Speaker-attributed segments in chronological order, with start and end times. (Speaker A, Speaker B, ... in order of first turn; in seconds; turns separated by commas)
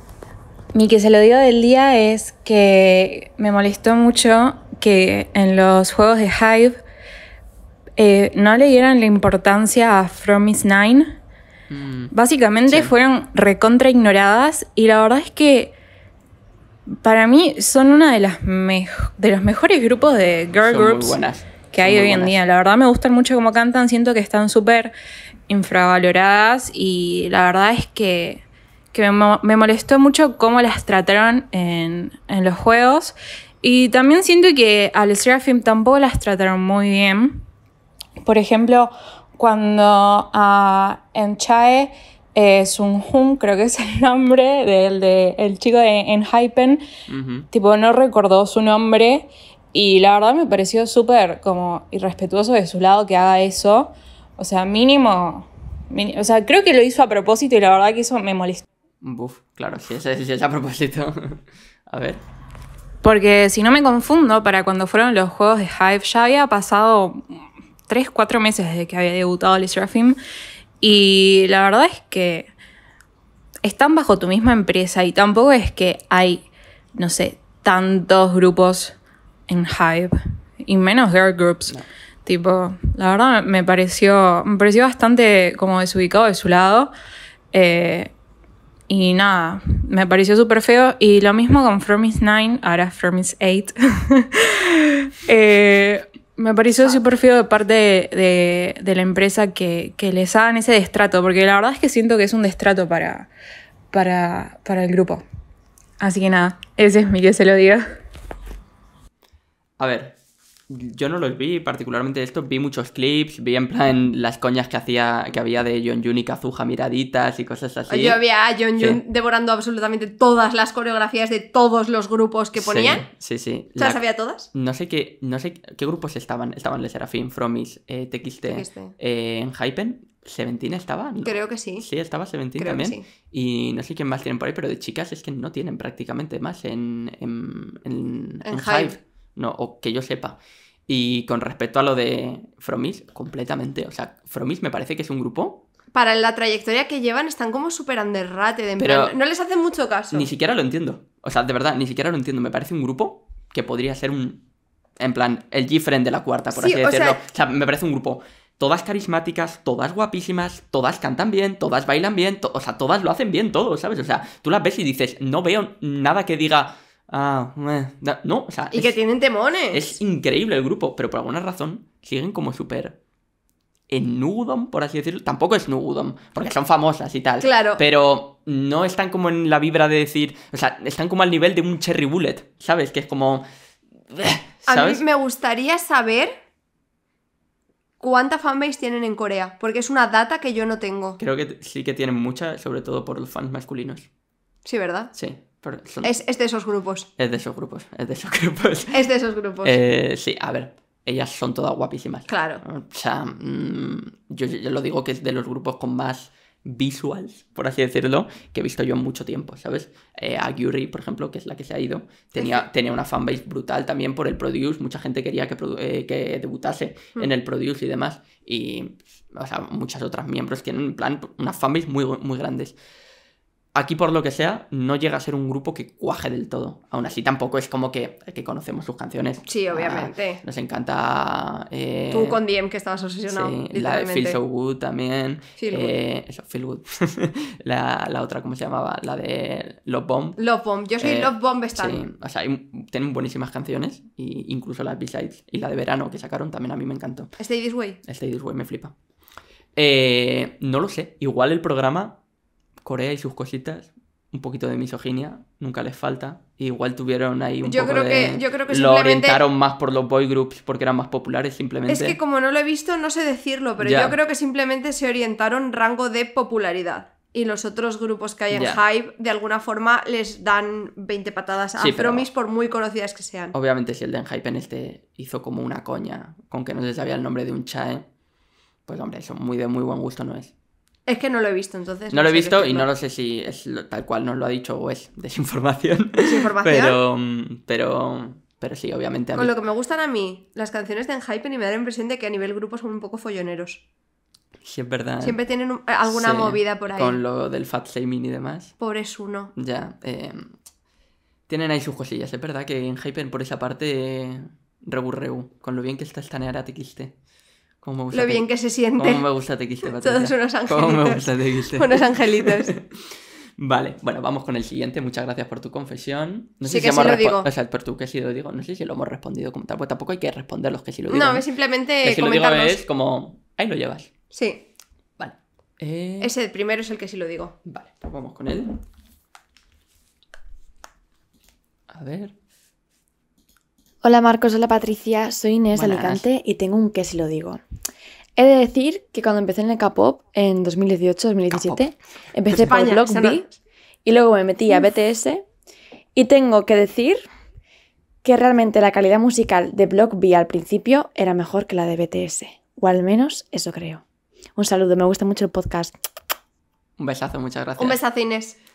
Speaker A: 0.7-6.8, Speaker A: 8.0-11.2, Speaker B: 11.7-12.1, Speaker A: 12.1-15.7, Speaker B: 12.7-12.9, Speaker A: 16.9-21.2, Speaker B: 20.6-22.4, Speaker A: 21.7-24.9, Speaker A: 25.5-28.4, Speaker A: 28.9-37.4, Speaker A: 38.2-46.8, Speaker B: 47.1-47.5, Speaker A: 47.5-58.6, Speaker B: 59.0-62.2, Speaker A: 63.0-70.2, Speaker A: 70.8-72.5, Speaker A: 73.6-76.5, Speaker A: 77.0-79.0, Speaker A: 79.5-86.9, Speaker A: 87.5-88.1, Speaker A: 88.9-103.3, Speaker A: 103.9-105.2, Speaker A: 106.0-107.8, Speaker B: 109.8-110.2, Speaker B: 110.7-118.2, Speaker C: 117.9-123.1, Speaker B: 122.6-124.0, Speaker C: 123.8-124.5, Speaker B: 124.5-140.4, Speaker C: 128.5-128.9, Speaker C: 131.2-131.9, Speaker C: 132.6-133.0, Speaker C: 138.4-139.0, Speaker B: 140.9-145.6, Speaker C: 145.9-150.3, Speaker B: 148.8-149.1, Speaker B: 150.1-154.4, Speaker B: 155.0-168.9, Speaker C: 156.5-157.2, Speaker C: 168.7-170.0, Speaker B: 169.7-173.0, Speaker B: 173.9-183.5, Speaker C: 177.4-177.8, Speaker B: 184.1-185.0, Speaker C: 184.7-186.4, Speaker C: 188.0-191.2, Speaker B: 191.2-194.1, Speaker C: 194.7-195.1, Speaker B: 195.1-196.2, Speaker C: 196.0-197.1, Speaker B: 197.2-199.0, Speaker C: 198.9-199.8, Speaker B: 199.6-222.8, Speaker C: 202.3-202.6, Speaker C: 212.4-212.7, Speaker B: 223.8-232.4, Speaker C: 229.4-230.4, Speaker C: 232.1-234.4, Speaker B: 233.3-240.4, Speaker C: 235.6-235.9, Speaker C: 240.4-242.0, Speaker B: 241.0-247.3, Speaker C: 247.4-248.0, Speaker B: 248.0-248.9, Speaker B: 249.8-252.2, Speaker B: 252.8-262.2, Speaker C: 257.6-259.4, Speaker C: 261.9-273.6, Speaker B: 263.8-264.2, Speaker B: 268.5-268.8, Speaker B: 271.8-272.3, Speaker B: 273.5-278.1, Speaker B: 278.9-280.5, Speaker C: 281.1-282.9, Speaker B: 282.1-289.5, Speaker C: 286.2-287.0, Speaker C: 289.4-293.8, Speaker B: 294.6-295.4, Speaker C: 295.2-297.2, Speaker B: 296.0-298.8, Speaker C: 298.8-299.5, Speaker B: 299.6-300.6, Speaker B: 301.5-307.1, Speaker B: 307.8-312.9, Speaker C: 308.1-309.3, Speaker C: 309.8-312.8, Speaker B: 313.6-321.4, Speaker C: 316.6-317.5, Speaker C: 321.1-322.8, Speaker B: 322.0-324.1, Speaker C: 324.3-324.6, Speaker B: 325.2-326.3, Speaker C: 326.2-327.6, Speaker B: 327.6-328.8, Speaker B: 331.9-332.3, Speaker D: 334.0-337.6, Speaker B: 335.7-336.2, Speaker D: 338.4-343.5, Speaker B: 341.5-341.8, Speaker C: 342.5-343.5, Speaker D: 344.1-345.5, Speaker D: 346.1-347.3, Speaker D: 348.2-354.0, Speaker D: 354.6-356.0, Speaker B: 357.0-358.0, Speaker C: 357.8-358.6